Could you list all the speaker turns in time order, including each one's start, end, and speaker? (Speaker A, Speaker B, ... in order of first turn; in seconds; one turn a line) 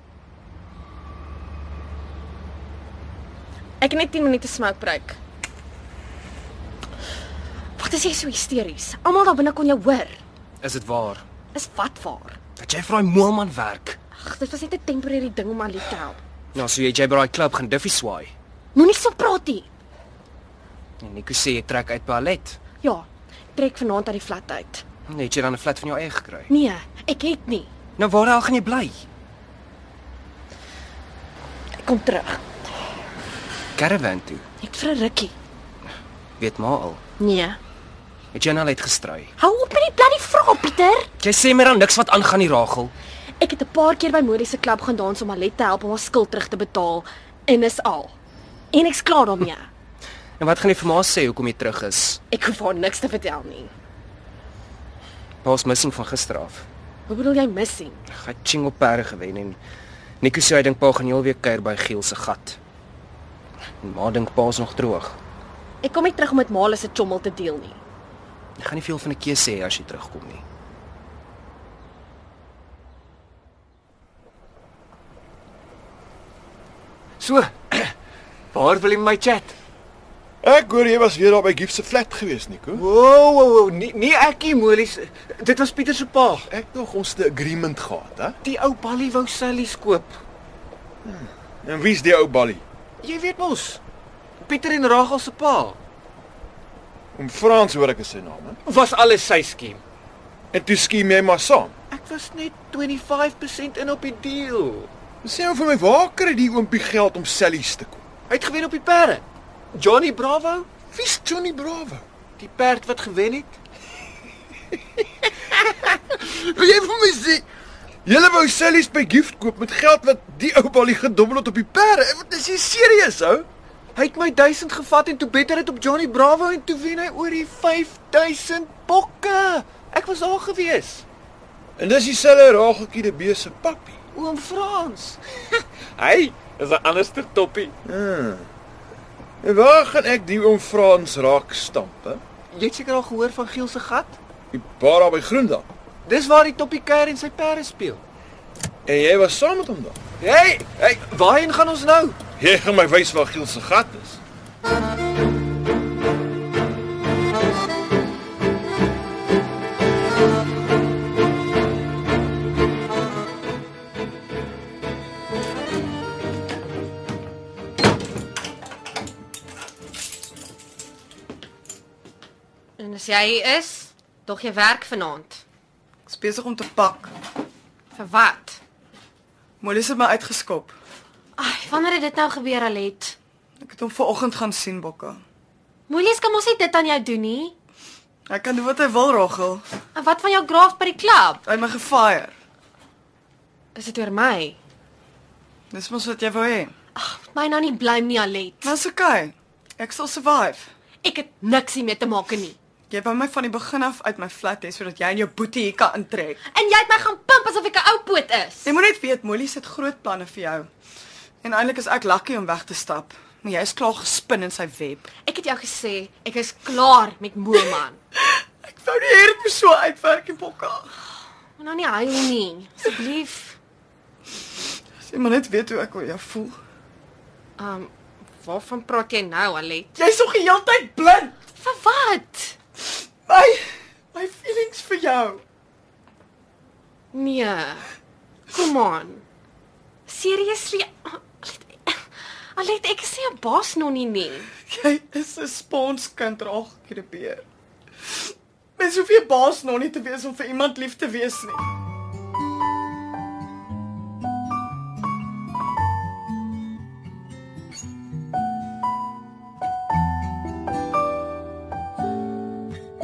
Speaker A: 3.8-5.2
Speaker A: 7.8-10.2
Speaker B: 10.6-11.2
Speaker A: 11.5-12.4
Speaker B: 12.6-14.0
Speaker A: 14.2-16.2
Speaker B: 16.5-18.3
Speaker A: 18.8-19.7
Speaker B: 21.0-22.6
Speaker A: 22.8-24.8
Speaker B: 25.1-26.5
Speaker A: 26.5-27.7
Speaker B: 28.0-29.0
Speaker A: 31.8-32.5
Speaker B: 33.8-34.4
Speaker A: 34.6-35.3
Speaker B: 36.4-37.0
Speaker A: 37.2-37.6
Speaker B: 38.3-39.3
Speaker A: 39.4-41.1
Speaker B: 41.2-42.9
Speaker A: 43.4-48.2
Speaker A: 48.7-49.7
Speaker B: 50.4-52.2
Speaker A: 52.3-53.7
Speaker B: 55.4-56.7
Speaker A: 57.1-58.0
Speaker B: 58.1-59.6
Speaker B: 60.2-62.6
Speaker B: 63.8-65.2
Speaker A: 65.8-67.8
Speaker B: 68.6-70.4
Speaker C: 77.2-77.9
Speaker C: 78.5-79.5
Speaker D: 80.4-82.8
Speaker C: 82.7-86.5
Speaker D: 86.5-88.4
Speaker C: 88.4-90.2
Speaker D: 91.0-92.6
Speaker C: 93.0-93.8
Speaker C: 94.4-95.8
Speaker D: 97.2-98.6
Speaker C: 98.7-99.8
Speaker D: 100.5-101.7
Speaker C: 101.9-104.9
Speaker D: 105.2-108.0
Speaker C: 108.3-110.7
Speaker D: 110.9-112.0
Speaker C: 112.4-113.6
Speaker D: 115.8-117.5
Speaker D: 118.0-123.5
Speaker C: 124.0-131.1
Speaker D: 131.8-134.0
Speaker C: 134.1-137.8
Speaker D: 137.8-138.5
Speaker D: 139.4-142.2
Speaker C: 142.5-144.2
Speaker D: 144.5-145.7
Speaker C: 146.1-148.0
Speaker D: 148.9-150.0
Speaker C: 150.2-152.2
Speaker D: 152.4-154.2
Speaker A: 172.8-175.4
Speaker E: 176.1-177.1
Speaker A: 177.9-178.6
Speaker E: 179.6-180.7
Speaker A: 181.4-183.2
Speaker E: 183.6-185.2
Speaker A: 185.9-187.5
Speaker E: 188.3-189.6
Speaker A: 189.9-191.4
Speaker E: 191.5-192.3
Speaker A: 193.8-194.6
Speaker E: 195.7-196.7
Speaker A: 197.0-198.7
Speaker E: 198.6-200.7
Speaker A: 201.0-202.6
Speaker E: 202.9-206.4
Speaker A: 206.5-208.7
Speaker E: 208.7-210.7
Speaker E: 211.4-215.1
Speaker A: 215.2-218.0
Speaker E: 218.2-220.9
Speaker A: 221.6-223.6
Speaker E: 225.0-226.6
Speaker A: 227.6-229.9
Speaker E: 230.0-231.3
Speaker A: 231.6-232.6
Speaker E: 233.3-235.4
Speaker A: 237.1-237.9
Speaker A: 238.5-239.2
Speaker A: 240.1-242.0
Speaker A: 242.6-244.5
Speaker E: 244.7-247.4
Speaker E: 248.8-251.6